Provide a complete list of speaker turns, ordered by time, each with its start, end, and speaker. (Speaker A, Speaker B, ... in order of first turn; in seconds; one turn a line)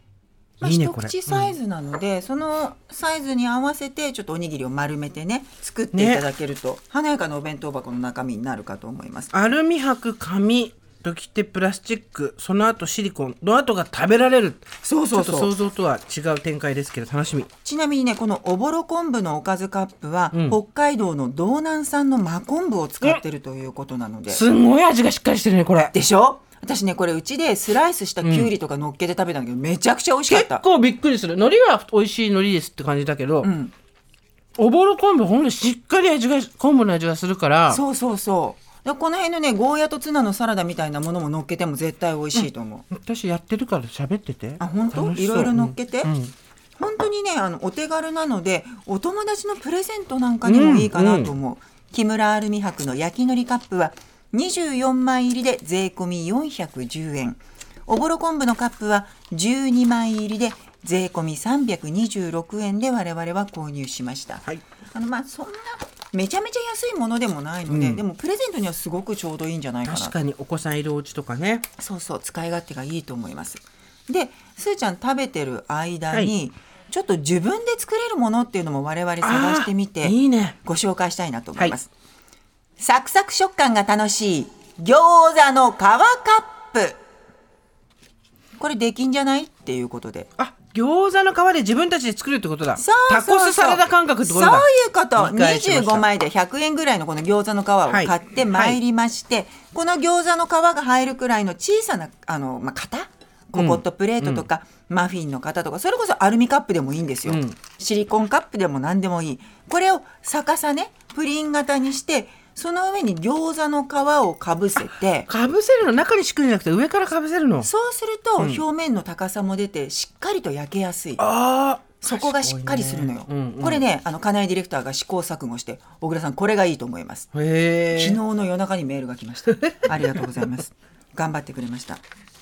Speaker A: 0.6-1.6
Speaker B: 0.6-9.3
Speaker A: 5.9-6.3
Speaker A: 9.3-17.5
Speaker B: 14.8-15.5
Speaker B: 17.6-24.4
Speaker A: 20.3-20.6
Speaker A: 24.3-25.9
Speaker B: 25.9-30.6
Speaker A: 28.2-28.5
Speaker A: 30.3-33.5
Speaker B: 33.4-33.7
Speaker A: 34.6-37.8
Speaker B: 37.7-42.8
Speaker A: 42.4-46.3
Speaker B: 44.6-46.1
Speaker B: 46.8-70.2
Speaker A: 50.4-51.3
Speaker A: 67.7-68.0
Speaker A: 69.9-71.7
Speaker B: 71.8-81.9
Speaker A: 79.2-80.6
Speaker B: 82.8-87.0
Speaker B: 88.6-90.3
Speaker A: 90.4-96.1
Speaker B: 92.8-115.3
Speaker A: 97.9-98.8
Speaker A: 103.5-104.5
Speaker A: 107.2-107.6
Speaker A: 115.3-117.7
Speaker B: 117.6-121.2
Speaker A: 121.2-123.9
Speaker B: 122.0-127.3
Speaker A: 127.3-128.2
Speaker B: 127.9-132.0
Speaker A: 129.5-130.5